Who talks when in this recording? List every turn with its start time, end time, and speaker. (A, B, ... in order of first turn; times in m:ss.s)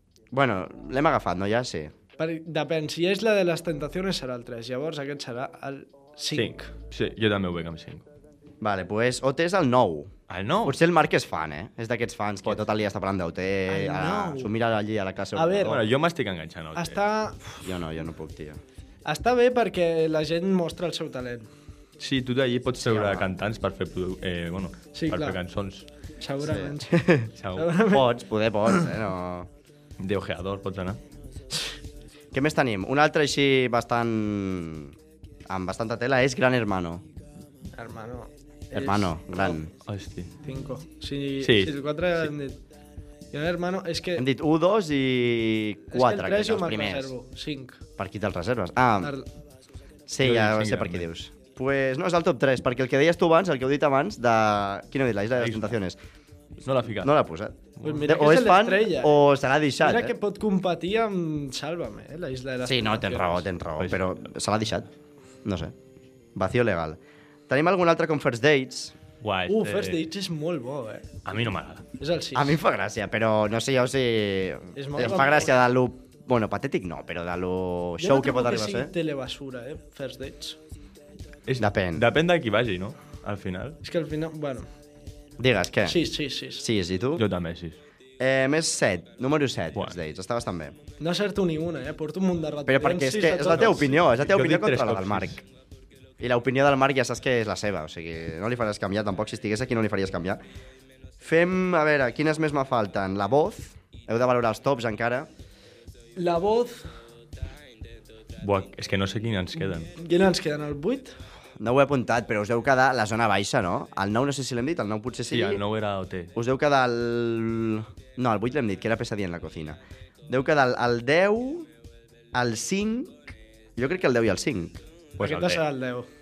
0:00.3-0:01.9 A
0:02.2-0:06.7 B
0:06.3-0:08.0 C
0:08.6-0:10.1 A
0:10.3-0:10.8 C
0:10.6-0:15.9 A
0:13.7-0:14.5 B
0:15.4-0:15.8 B
0:15.6-0:17.0 C
0:16.8-0:17.6 B
0:17.6-0:18.6 A
0:19.0-0:21.5 B
0:22.0-0:25.9 C
0:22.8-0:23.3 A
0:24.9-0:25.4 B
0:26.2-0:28.1 B
0:26.4-0:27.3 A
0:27.4-0:27.7 C
0:27.9-0:29.5 A
0:30.0-0:31.0 C
0:32.3-0:34.9 A
0:35.5-0:37.0 A
0:37.8-0:39.6 B
0:38.7-0:39.7 A
0:39.9-0:40.3 C
0:40.4-0:42.6 B
0:41.4-0:41.7 C
0:43.3-0:44.2 B
0:44.2-0:47.1 A
0:45.9-0:47.8 B
0:48.0-0:49.1 A
0:49.0-0:49.3 B
0:50.1-0:56.0 A
0:50.2-0:51.1 C
0:55.4-0:55.8 C
0:56.6-0:57.1 C
0:57.0-1:00.2 A
0:57.8-0:58.1 C
0:57.8-0:59.3 B
0:59.8-1:03.4 B
1:02.6-1:04.9 A
1:03.8-1:04.0 C
1:05.4-1:05.7 A
1:06.4-1:08.9 A
1:09.2-1:10.0 C
1:09.5-1:11.1 B
1:11.2-1:11.8 C
1:12.0-1:12.5 B
1:12.4-1:18.9 A
1:14.8-1:15.6 B
1:18.0-1:20.6 B
1:21.4-1:23.8 C
1:21.6-1:22.0 A
1:23.8-1:24.6 B
1:25.4-1:26.0 A
1:25.9-1:26.6 B
1:26.6-1:27.2 A
1:27.2-1:27.8 C
1:28.2-1:30.8 A
1:31.0-1:34.0 B
1:32.7-1:35.4 A
1:33.6-1:35.4 C
1:36.2-1:40.4 A
1:41.2-1:45.3 A
1:46.2-1:46.9 B
1:48.4-1:49.9 C
1:49.9-1:51.1 B
1:51.6-1:55.6 A
1:55.3-1:56.3 C
1:56.4-2:01.7 A
2:02.3-2:04.8 A
2:05.2-2:05.6 C
2:05.2-2:06.1 B